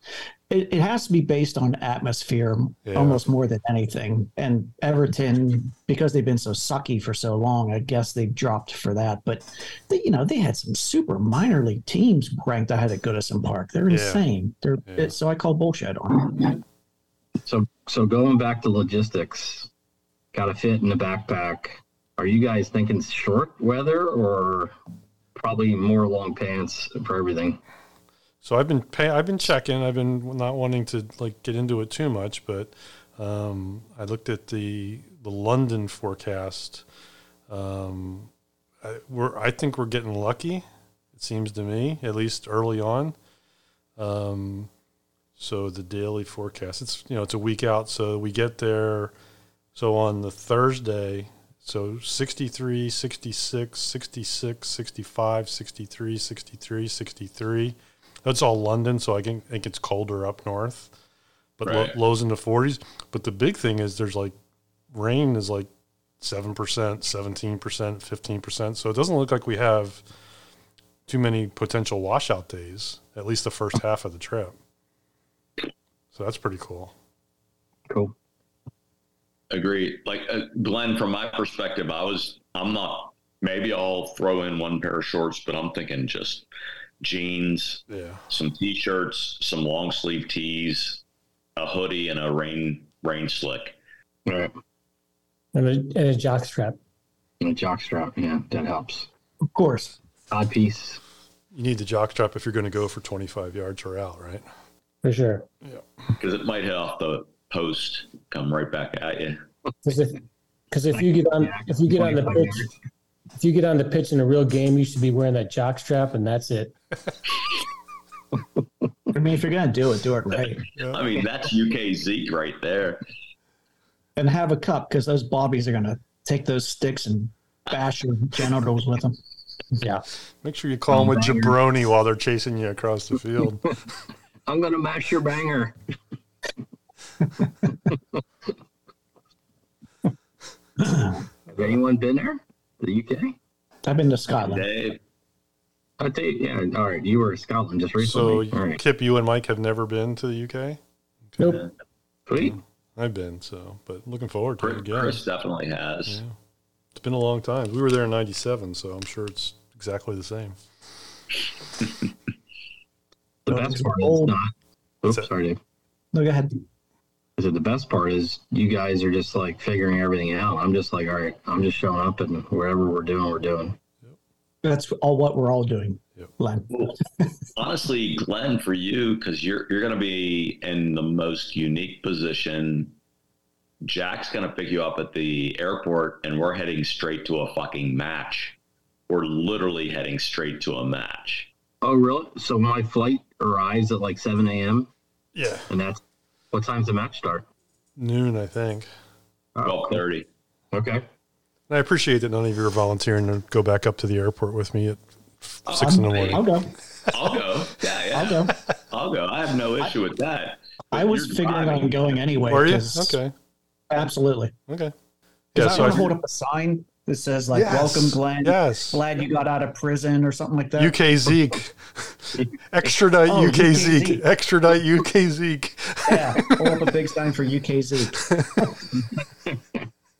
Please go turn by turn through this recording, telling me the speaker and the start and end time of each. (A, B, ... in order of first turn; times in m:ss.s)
0:00.5-0:16.6 A
0:02.8-0:03.2 B
0:13.9-0:14.2 B
0:14.9-0:15.1 B
0:17.4-0:19.7 C
0:20.3-0:24.7 C
0:25.3-0:27.6 C
0:28.4-0:36.8 B
0:37.5-0:38.3 B
0:38.8-0:43.2 B
0:44.0-0:44.7 B
0:45.4-0:49.1 B
0:49.7-1:00.9 B
1:01.6-1:04.4 B
1:01.6-1:02.0 D
1:04.9-1:05.7 B
1:06.2-1:10.0 B
1:11.1-1:14.6 B
1:16.1-1:16.9 B
1:17.9-1:18.1 C
1:19.5-1:26.4 D
1:27.0-1:31.0 D
1:27.9-1:28.2 B
1:31.6-1:33.8 D
1:34.2-1:34.5 C
1:35.5-1:36.8 E
1:37.4-1:39.1 C
1:39.4-1:40.0 A
1:40.3-1:41.0 C
1:41.5-1:44.4 B
1:45.0-1:45.4 E
1:46.2-1:49.4 D
1:49.8-1:50.2 E
1:50.7-1:52.7 E
1:50.9-1:52.7 C
1:53.4-1:56.7 E
1:59.1-2:00.6 A
2:00.9-2:03.0 D
2:04.2-2:09.2 A
2:10.4-2:13.6 B
2:10.9-2:11.6 C
2:14.5-2:15.8 C
2:17.6-2:18.0 C
2:20.8-2:21.2 A
2:21.5-2:23.4 C
2:23.8-2:24.6 A
2:24.4-2:25.0 D
2:26.0-2:28.8 C
2:28.0-2:30.8 B
2:32.3-2:32.6 C
2:32.3-2:35.2 B
2:34.6-2:36.2 D
2:36.1-2:36.3 B
2:36.9-2:40.6 B
2:43.4-2:44.5 C
2:43.5-2:44.4 A
2:45.0-2:45.6 C
2:46.1-2:46.6 A
2:47.4-2:53.8 C
2:54.6-2:56.9 A
2:57.6-3:02.9 D
3:03.8-3:08.6 D
3:09.1-3:11.5 D
3:11.8-3:14.9 C
3:15.3-3:15.7 B
3:15.7-3:16.0 C
3:16.5-3:17.4 C
3:18.0-3:18.9 B
3:19.6-3:20.0 C
3:19.6-3:20.2 D
3:20.7-3:21.0 C
3:21.7-3:26.5 B
3:25.7-3:26.4 D
3:25.8-3:26.7 A
3:27.1-3:32.2 D
3:28.1-3:28.5 A
3:30.9-3:33.2 A
3:32.5-3:33.3 B
3:33.9-3:34.5 A
3:34.7-3:34.9 B
3:35.5-3:36.1 B
3:35.5-3:40.9 A
3:37.5-3:39.0 B
3:40.8-3:46.7 B
3:43.2-3:44.2 A
3:46.1-3:48.7 A
3:48.2-3:48.7 B